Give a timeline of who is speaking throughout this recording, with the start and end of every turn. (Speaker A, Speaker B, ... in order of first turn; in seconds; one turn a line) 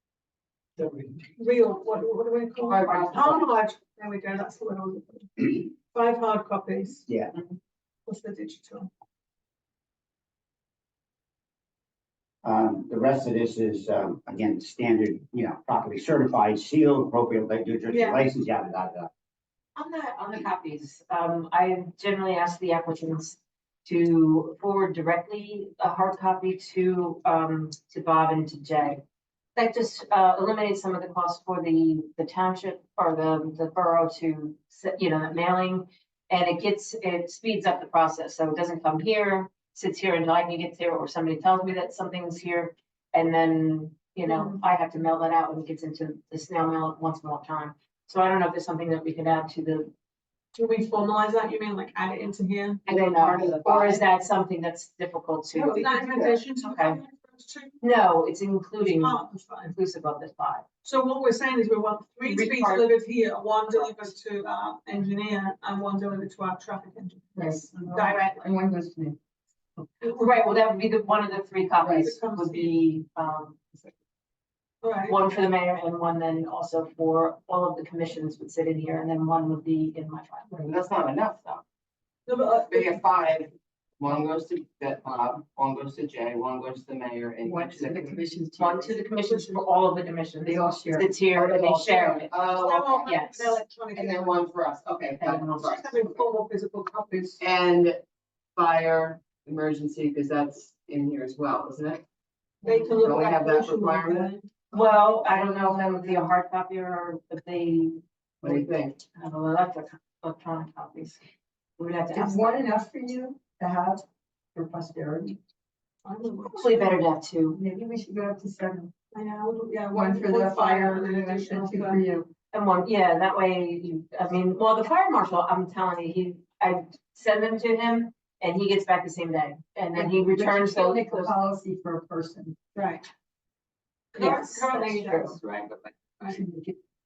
Speaker A: 1.4-7.1
Speaker B: 2.7-3.4
Speaker C: 7.1-7.3
Speaker A: 8.1-8.9
Speaker C: 12.4-19.1
Speaker A: 17.9-18.2
Speaker D: 19.8-29.0
Speaker D: 29.6-49.9
Speaker A: 44.2-44.6
Speaker A: 50.5-52.9
Speaker D: 52.9-57.0
Speaker B: 53.1-54.0
Speaker A: 55.6-57.8
Speaker D: 57.8-60.6
Speaker A: 58.8-59.8
Speaker A: 60.8-68.5
Speaker D: 62.2-62.9
Speaker E: 67.4-69.2
Speaker D: 70.0-73.9
Speaker E: 71.8-72.1
Speaker A: 71.9-72.7
Speaker A: 74.8-75.2
Speaker D: 75.0-80.6
Speaker B: 80.6-81.6
Speaker A: 82.3-82.9
Speaker B: 82.6-88.2
Speaker E: 87.5-89.0
Speaker D: 88.6-92.4
Speaker A: 89.2-89.7
Speaker E: 90.5-91.2
Speaker B: 91.4-93.2
Speaker A: 92.4-94.4
Speaker D: 93.0-93.6
Speaker B: 93.9-96.1
Speaker D: 95.2-95.7
Speaker A: 95.6-97.4
Speaker B: 97.4-98.0
Speaker B: 98.6-102.0
Speaker A: 102.6-104.5
Speaker E: 102.7-103.0
Speaker B: 103.0-104.3
Speaker D: 104.7-111.2
Speaker E: 104.7-106.3
Speaker B: 108.4-109.0
Speaker D: 111.8-112.7
Speaker E: 112.1-114.0
Speaker E: 114.5-115.4
Speaker A: 116.0-117.0
Speaker D: 116.5-117.6
Speaker E: 117.5-118.9
Speaker A: 119.1-122.0
Speaker E: 119.9-122.3
Speaker D: 122.5-131.3
Speaker E: 130.0-132.6
Speaker A: 132.8-133.1
Speaker A: 134.1-136.4
Speaker D: 134.2-135.4
Speaker E: 136.3-136.8